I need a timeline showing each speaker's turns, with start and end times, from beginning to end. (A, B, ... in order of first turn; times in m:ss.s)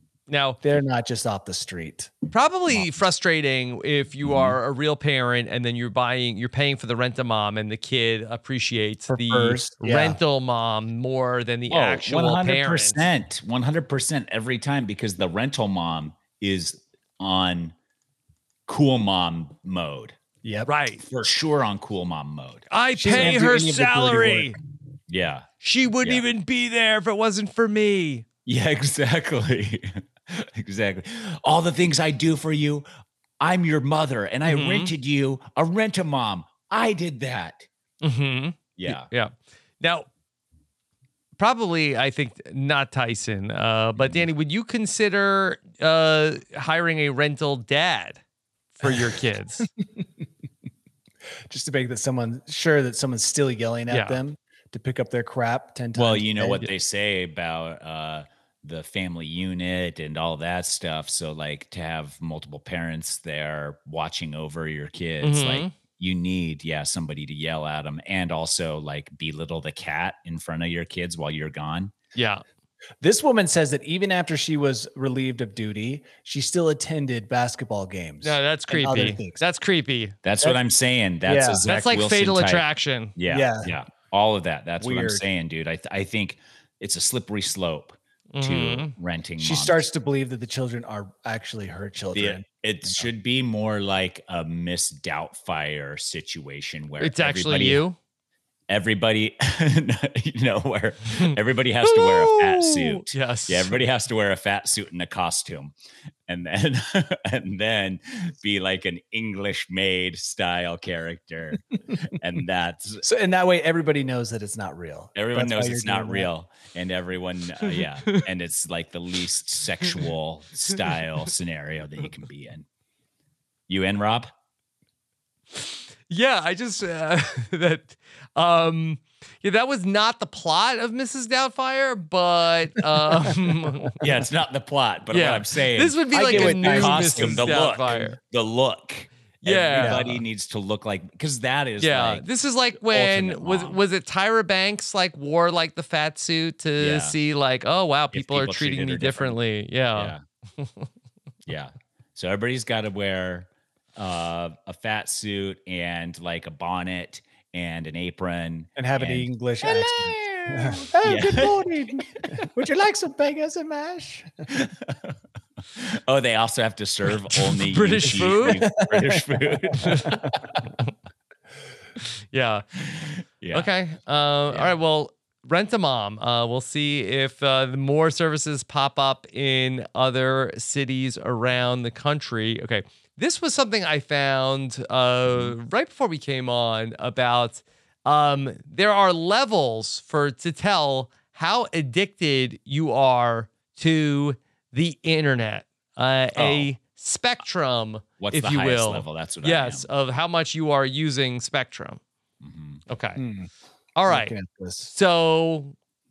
0:00.3-0:00.6 A
0:00.6-0:02.1 B
0:02.3-0:13.0 A
0:02.7-0:03.0 C
0:04.2-0:04.6 C
0:09.1-0:10.2 B
0:11.7-0:17.7 C
0:18.7-0:20.2 C
0:20.4-0:20.7 B
0:20.7-0:21.0 A
0:21.0-0:23.4 C
0:22.7-0:24.6 A
0:23.0-0:24.6 B
0:25.1-0:25.5 C
0:25.6-0:28.2 A
0:28.5-0:32.9 C
0:33.4-0:37.7 C
0:34.4-0:34.9 A
0:38.0-0:40.1 A
0:38.8-0:39.1 C
0:41.4-0:48.2 A
0:44.0-0:44.3 C
0:48.8-0:49.7 A
0:48.8-0:50.1 B
0:51.5-0:56.7 B
0:53.9-0:54.2 A
0:56.0-1:11.9 C
1:05.2-1:05.7 A
1:12.2-1:12.4 A
1:13.0-1:19.4 B
1:18.2-1:20.2 A
1:20.2-1:22.6 C
1:21.2-1:21.7 B
1:21.7-1:23.2 A
1:23.2-1:29.8 C
1:23.3-1:23.7 B
1:24.8-1:25.2 B
1:28.4-1:28.9 A
1:29.4-1:33.1 B
1:32.1-1:37.8 C
1:37.0-1:38.0 A
1:38.7-1:45.7 C
1:41.8-1:43.8 A
1:46.3-1:53.0 C
1:53.0-1:56.3 B
1:55.2-2:02.6 C
2:03.7-2:04.3 C
2:05.6-2:14.0 A
2:14.0-2:22.2 C
2:15.1-2:18.2 A
2:16.1-2:18.0 B
2:19.4-2:20.2 A
2:19.8-2:20.1 B
2:21.8-2:30.9 A
2:22.8-2:23.8 C
2:26.8-2:27.2 C
2:28.1-2:29.4 C
2:30.0-2:30.2 C
2:31.5-2:41.6 C
2:38.8-2:44.5 B
2:44.5-2:45.1 C
2:45.7-2:50.6 C
2:47.5-2:48.6 A
2:48.4-2:50.4 B
2:49.8-2:50.2 A
2:52.3-2:52.6 A
2:52.8-2:53.7 C
2:53.5-3:22.0 A
3:05.3-3:05.6 C
3:16.4-3:16.7 C
3:18.2-3:19.9 C
3:22.4-3:22.8 C
3:22.9-3:23.2 A
3:23.2-3:23.5 B
3:24.0-3:24.4 A
3:24.1-3:24.9 B
3:24.9-3:25.8 A